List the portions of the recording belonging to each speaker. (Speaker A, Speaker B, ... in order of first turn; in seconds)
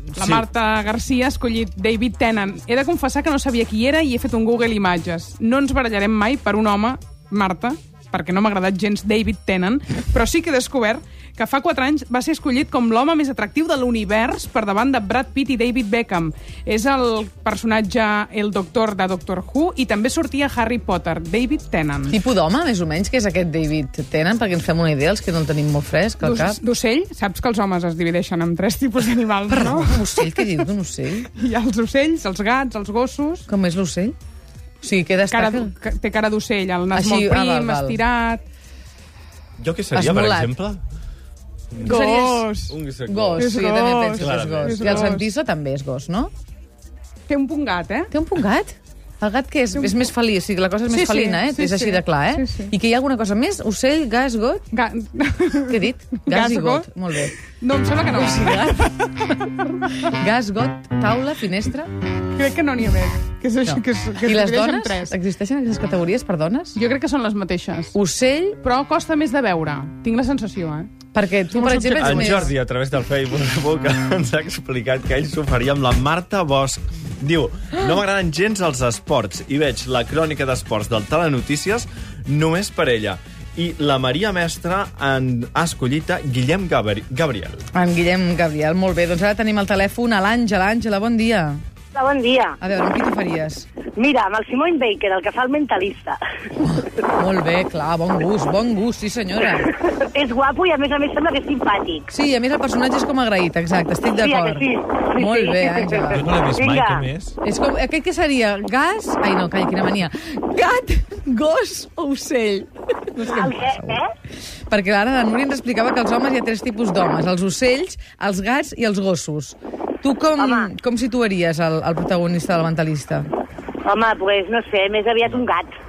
Speaker A: 0.1-0.4, 39.6-40.8, 42.7-43.6, 44.2-45.1, 72.0-87.6, 106.1-107.4
Speaker B: 0.1-22.1, 26.2-30.4, 31.3-33.5, 35.3-38.4, 41.8-42.8, 43.4-45.3, 47.3-48.1, 49.7-50.1, 50.9-52.7, 54.7-56.9, 57.6-59.9, 62.3-65.2, 66.7-68.0, 68.5-70.9, 71.5-72.5
Speaker C: 22.1-26.6, 29.5-31.3, 33.5-34.1, 34.8-35.7, 36.9-38.0, 39.9-40.5, 41.8-42.5, 43.1-46.3, 48.1-54.7, 55.7-57.3, 58.1-58.9, 60.0-61.9, 63.6-66.8, 67.9-68.6, 71.1-72.5, 87.7-91.6, 92.6-93.7, 96.6-99.8, 102.1-106.4, 107.4-114.0, 114.7-123.2
Speaker D: 91.9-92.5, 94.0-96.2, 100.1-102.0, 104.1-107.0, 113.3-114.0, 120.4-120.7, 123.8-125.7